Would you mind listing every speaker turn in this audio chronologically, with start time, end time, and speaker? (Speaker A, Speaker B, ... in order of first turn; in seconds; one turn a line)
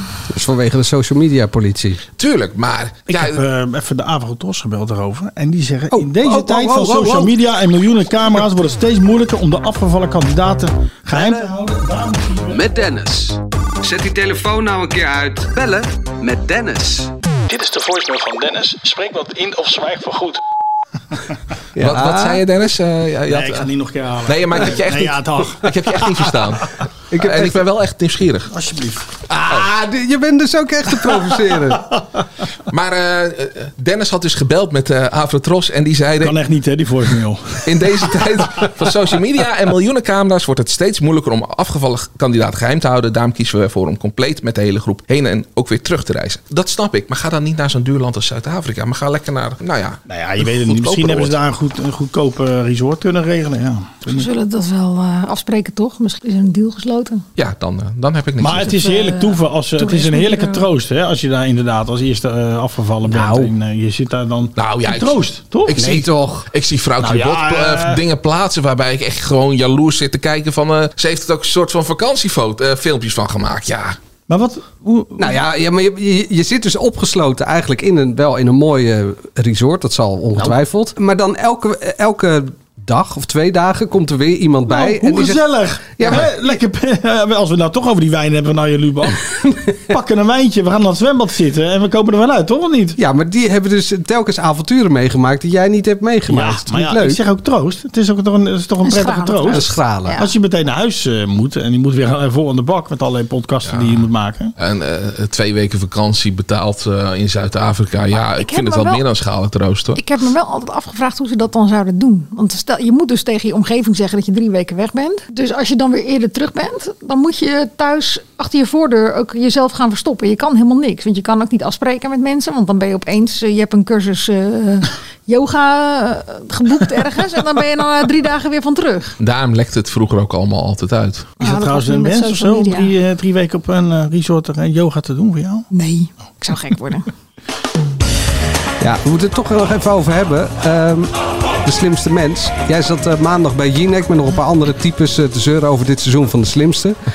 Speaker A: 0.3-2.0
Speaker B: 2.2-3.4
Speaker C: 3.1-12.8
Speaker A: 5.9-7.3
Speaker D: 12.5-17.1
Speaker C: 17.5-20.4
Speaker A: 21.8-22.4
Speaker B: 21.8-23.7
Speaker C: 23.3-26.6
Speaker B: 24.2-26.6
Speaker A: 27.1-27.6
Speaker B: 27.2-28.5
Speaker C: 28.5-29.1
Speaker A: 29.3-31.9
Speaker B: 32.7-36.4
Speaker C: 36.2-38.7
Speaker B: 37.6-51.4
Speaker C: 50.1-54.3
Speaker E: 54.1-57.2
Speaker B: 57.4-58.7
Speaker C: 58.4-65.9
Speaker E: 58.6-60.7
Speaker A: 63.1-63.5
Speaker B: 64.6-74.0
Speaker A: 65.7-66.5
Speaker C: 67.0-68.0
Speaker C: 74.3-75.4
Speaker A: 75.2-86.3
Speaker C: 84.7-89.2
Speaker A: 89.5-90.0
Speaker C: 89.9-93.0
Speaker A: 93.0-97.2
Speaker C: 96.3-104.5
Speaker E: 98.8-100.3
Speaker A: 99.5-100.2
Speaker B: 103.6-104.1
Speaker B: 104.6-110.0
Speaker E: 108.1-109.0
Speaker E: 110.0-129.2
Speaker B: 129.2-131.3
Speaker C: 131.4-135.7
Speaker E: 131.4-132.9
Speaker E: 135.7-137.1
Speaker A: 138.8-147.0